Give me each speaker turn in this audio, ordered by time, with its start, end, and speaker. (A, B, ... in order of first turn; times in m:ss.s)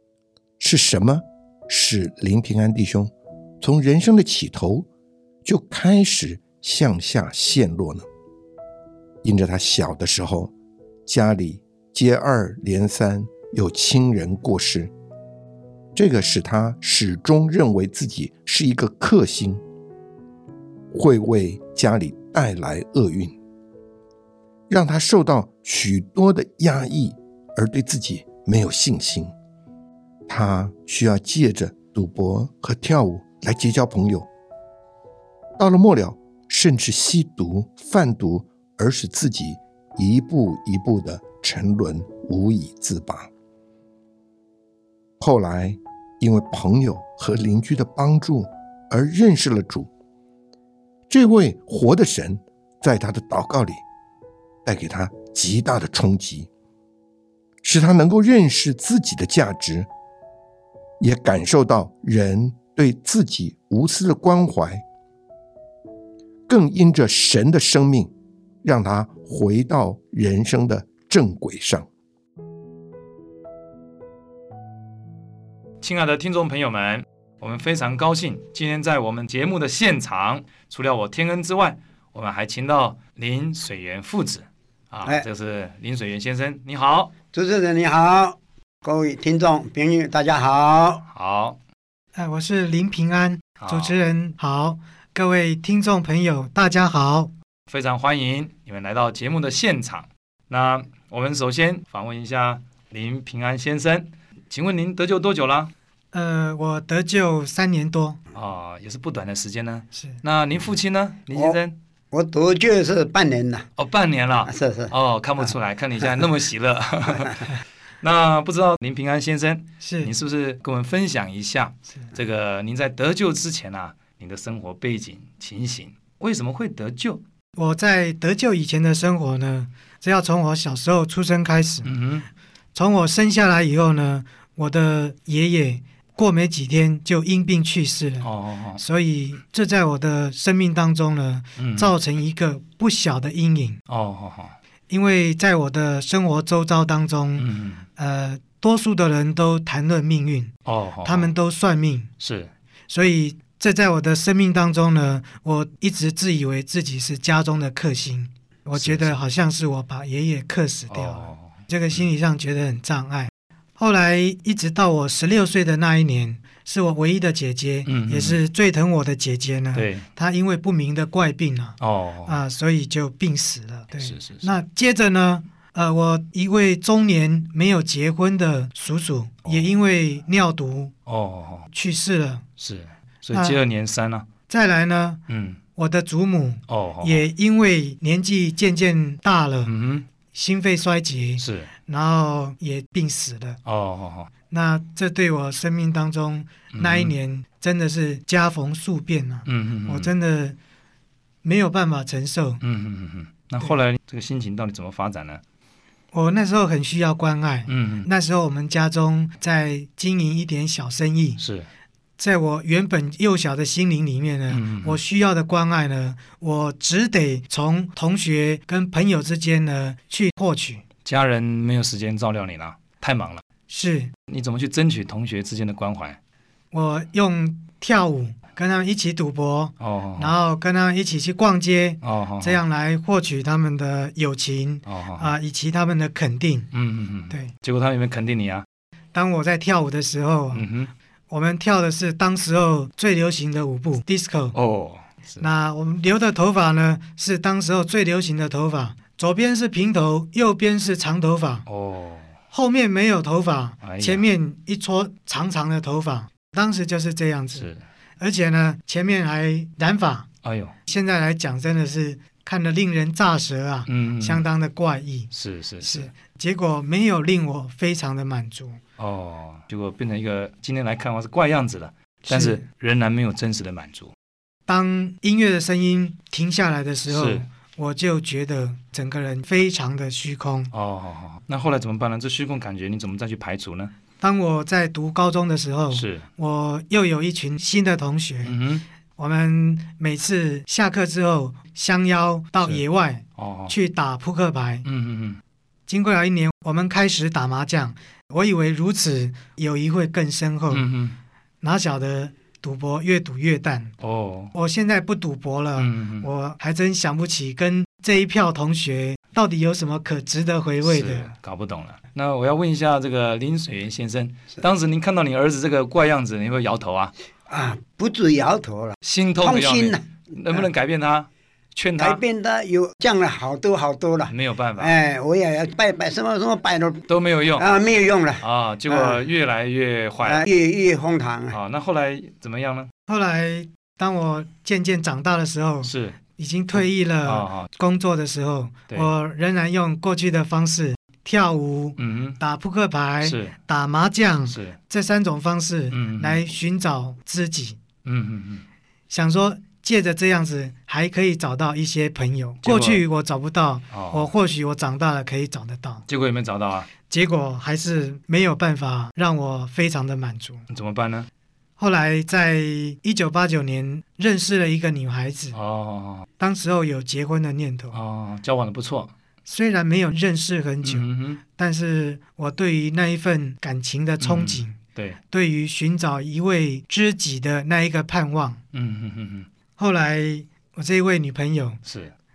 0:00.6-0:04.9 A
0:05.4-0:08.1 A
0:09.2-0:10.5 A
0:11.1-0:14.9 A
0:16.0-0:19.6 A
0:20.9-0:23.4 A
0:24.7-0:29.3 A
0:30.3-0:34.3 A
0:35.6-0:43.3 A
0:45.2-0:49.9 A
0:51.1-0:53.8 A
0:54.7-0:56.5 A
0:57.6-0:59.9 A
1:01.0-1:04.8 A
1:06.5-1:08.1 A
1:08.6-1:11.9 A
1:15.8-1:27.2 B
1:27.3-1:31.0 C
1:31.1-1:31.6 B
1:32.1-1:37.3 D
1:33.6-1:34.0 B
1:37.7-1:45.7 B
1:46.1-1:48.2 D
1:48.3-1:51.8 B
1:49.9-1:50.2 D
1:51.3-1:51.6 C
1:52.1-1:53.7 C
1:53.8-2:07.2 B
1:54.5-1:54.9 C
1:59.8-2:00.1 D
2:07.6-2:11.9 D
2:11.8-2:12.3 B
2:12.7-2:23.8 D
2:18.2-2:18.8 B
2:21.6-2:21.9 B
2:23.9-2:24.6 B
2:24.9-2:30.5 D
2:27.4-2:27.9 B
2:30.7-2:31.3 B
2:31.0-2:32.1 D
2:32.2-2:32.5 B
2:32.9-3:00.9 D
2:38.7-2:39.2 B
2:40.9-2:42.0 B
2:47.9-2:48.4 B
2:49.7-2:50.1 B
2:51.8-2:52.4 B
2:54.0-2:54.5 B
2:59.4-2:59.7 B
3:01.1-3:01.7 B
3:01.7-3:02.4 D
3:02.6-3:04.3 B
3:03.3-3:03.6 D
3:04.5-3:05.2 D
3:05.3-3:05.6 B
3:05.8-3:09.7 D
3:06.7-3:07.3 B
3:09.6-3:10.1 B
3:10.3-3:13.6 D
3:11.4-3:11.7 B
3:13.6-3:14.3 B
3:14.5-3:20.6 D
3:16.7-3:17.1 B
3:19.5-3:20.1 B
3:21.4-3:22.6 D
3:22.6-3:25.4 B
3:26.1-3:31.4 D
3:27.7-3:28.1 B
3:31.4-3:31.7 B
3:32.2-3:40.8 D
3:34.5-3:35.0 B
3:41.0-3:43.4 B
3:43.7-3:44.1 D
3:44.3-3:46.2 B
3:46.7-3:56.7 D
3:49.8-3:50.4 B
3:52.0-3:52.6 B
3:54.9-3:55.3 B
3:56.7-3:58.6 B
3:59.1-4:00.7 D
4:00.5-4:00.9 B
4:01.3-4:04.6 D
4:04.5-4:05.5 B
4:05.4-4:11.6 D
4:11.7-4:12.3 B
4:12.5-4:20.3 D
4:13.8-4:14.2 B
4:17.6-4:17.8 B
4:20.4-4:20.7 B
4:20.9-4:28.8 D
4:23.9-4:24.5 B
4:25.3-4:26.1 B
4:29.0-4:34.1 B
4:32.3-4:32.6 D
4:34.7-4:40.7 D
4:37.1-4:37.5 B
4:40.7-4:43.9 B
4:44.2-4:48.6 D
4:45.9-4:46.3 B
4:48.4-4:48.8 B
4:49.2-4:54.8 D
4:53.4-4:53.8 B
4:54.8-4:55.4 B
4:55.9-5:00.9 D
5:00.7-5:01.2 B
5:01.6-5:03.9 D
5:04.0-5:04.5 B
5:04.5-5:11.3 D
5:05.8-5:06.3 B
5:10.8-5:17.1 B
5:17.5-5:20.6 C
5:19.0-5:22.2 B
5:22.0-5:29.2 C
5:24.3-5:25.0 B
5:27.1-5:27.8 B
5:28.4-5:30.5 B
5:30.2-5:31.6 C
5:31.5-5:32.9 B
5:33.1-5:47.8 D
5:35.8-5:36.2 B
5:37.2-5:37.7 B
5:42.0-5:42.4 B
5:43.2-5:43.6 B
5:44.5-5:44.8 B
5:45.9-5:46.4 B
5:48.0-5:48.6 B
5:49.1-5:56.0 D
5:52.6-5:53.0 B
5:53.9-5:54.3 B
5:56.1-5:56.9 B
5:57.1-6:00.6 D
6:00.7-6:01.3 B
6:01.8-6:05.6 D
6:05.5-6:06.3 B
6:06.4-6:08.0 D
6:07.9-6:09.1 B
6:09.5-6:14.8 D
6:10.8-6:11.4 B
6:14.2-6:15.2 B
6:15.3-6:18.6 D
6:18.7-6:19.5 B
6:19.8-6:21.8 D
6:21.8-6:22.1 B